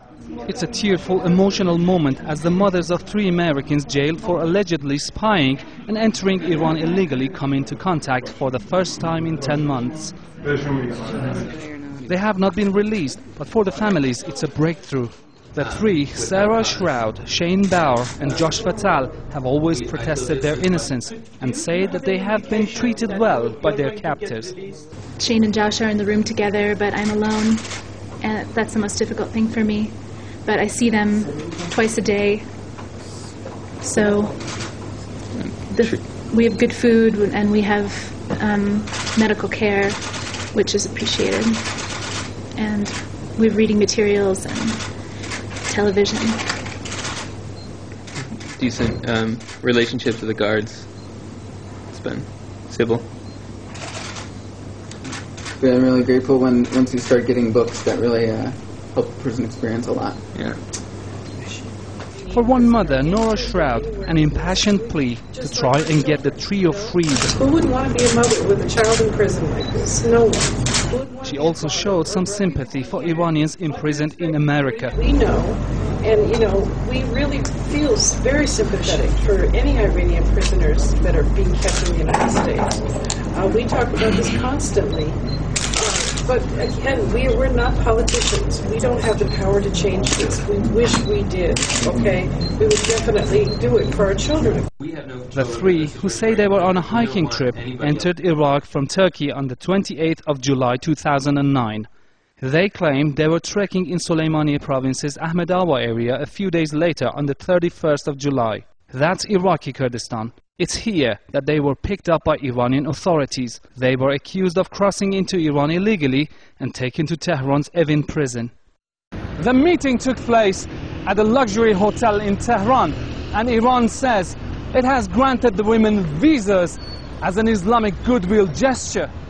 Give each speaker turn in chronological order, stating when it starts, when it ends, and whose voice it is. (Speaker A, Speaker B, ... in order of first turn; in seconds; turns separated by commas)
Speaker A: 0.5-10.2, Speaker A: 11.2-11.4, Speaker A: 12.0-24.6, Speaker B: 15.6-17.1, Speaker B: 19.7-21.0, Speaker C: 21.6-24.8, Speaker D: 25.2-32.5, Speaker D: 33.8-34.4, Speaker B: 35.3-36.1, Speaker D: 35.7-41.8, Speaker D: 42.5-44.9, Speaker D: 45.7-46.4, Speaker B: 48.2-50.9, Speaker B: 51.9-53.1, Speaker E: 55.6-60.3, Speaker B: 60.3-60.6, Speaker C: 61.4-82.8, Speaker A: 62.3-67.3, Speaker A: 71.2-75.0, Speaker C: 83.3-85.2, Speaker C: 85.7-94.7, Speaker B: 94.8-98.1, Speaker A: 95.3-101.9, Speaker A: 102.4-118.5, Speaker A: 119.4-129.1